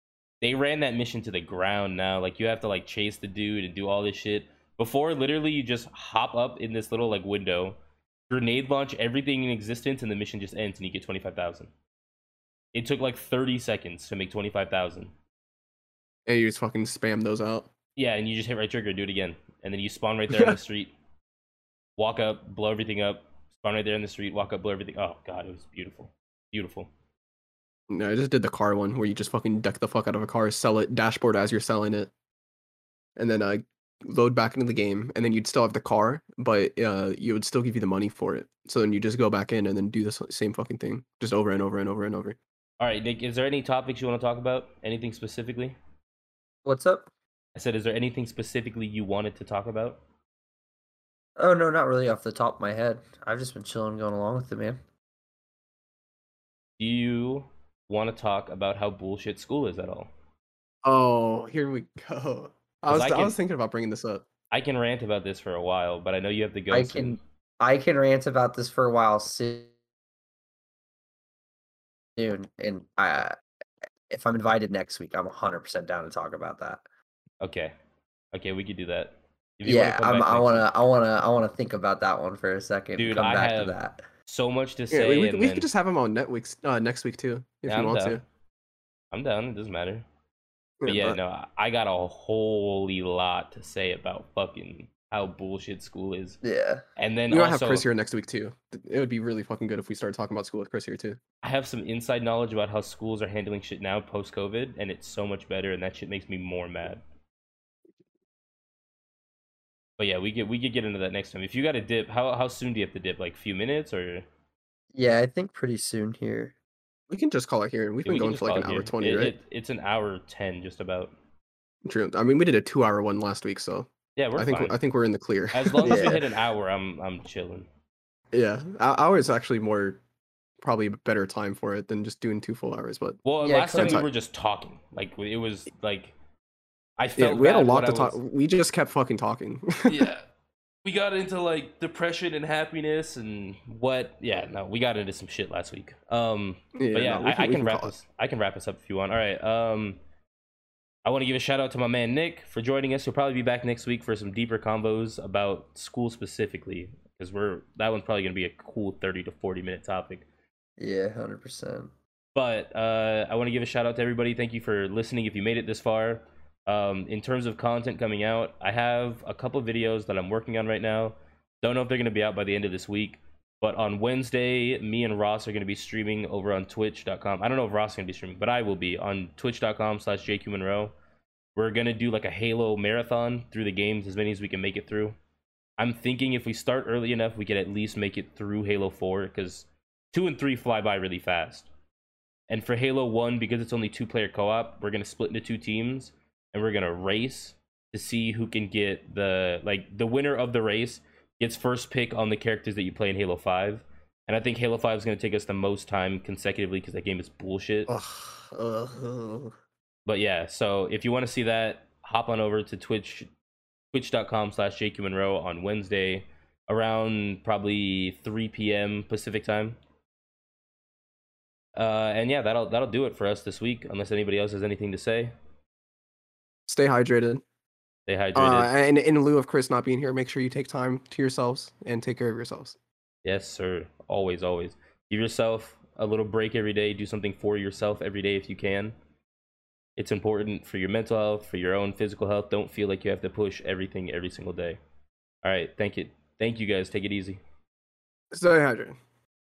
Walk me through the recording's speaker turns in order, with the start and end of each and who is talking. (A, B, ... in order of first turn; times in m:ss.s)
0:00.4-0:07.8 A
0:08.3-0:11.7 A
0:12.7-0:15.1 A
0:16.3-0:17.7 B
0:18.0-0:20.9 A
0:20.3-0:20.6 B
0:22.0-0:26.9 A
0:27.9-0:32.1 B
0:33.2-0:42.4 B
0:42.8-0:45.8 A
0:46.6-0:47.1 C
0:47.5-0:50.0 A
0:51.4-0:54.8 C
0:56.8-1:00.1 A
1:00.8-1:04.2 B
1:02.9-1:03.3 A
1:04.5-1:07.2 A
1:06.7-1:09.7 C
1:12.2-1:13.4 C
1:14.1-1:16.8 C
1:17.4-1:17.7 A
1:18.3-1:20.7 A
1:19.6-1:24.0 C
1:23.0-1:25.7 A
1:24.9-1:28.2 B
1:27.7-1:28.2 A
1:29.1-1:30.0 A
1:30.8-1:31.2 B
1:30.9-1:36.4 A
1:36.4-1:36.8 C
1:37.0-1:37.8 A
1:37.3-1:41.2 B
1:41.4-1:47.0 A
1:50.0-1:54.2 A
1:54.9-1:56.5 C
1:57.1-1:59.3 B
1:58.0-2:01.1 A
2:01.8-2:06.2 B
2:04.2-2:04.8 A
2:05.5-2:07.7 A
2:05.8-2:06.2 C
2:08.3-2:10.0 B
2:10.6-2:13.2 B
2:13.2-2:16.1 A
2:13.4-2:14.1 C
2:13.8-2:14.0 B
2:17.0-2:18.2 A
2:17.2-2:20.1 B
2:19.9-2:20.2 A
2:20.8-2:30.0 A
2:26.8-2:28.0 B
2:31.0-2:40.2 A
2:40.8-2:41.9 C
2:42.3-3:00.9 A
3:01.6-3:05.2 A
3:05.8-3:11.7 A
3:12.5-3:27.9 A
3:27.9-3:29.5 B
3:30.0-3:33.3 A
3:33.9-3:39.8 A
3:41.8-3:45.3 A
3:46.7-3:47.4 B
3:48.1-3:48.7 A
3:48.3-3:52.8 B
3:53.2-3:58.9 A
4:00.0-4:04.8 A
4:05.4-4:07.4 A
4:08.3-4:09.0 B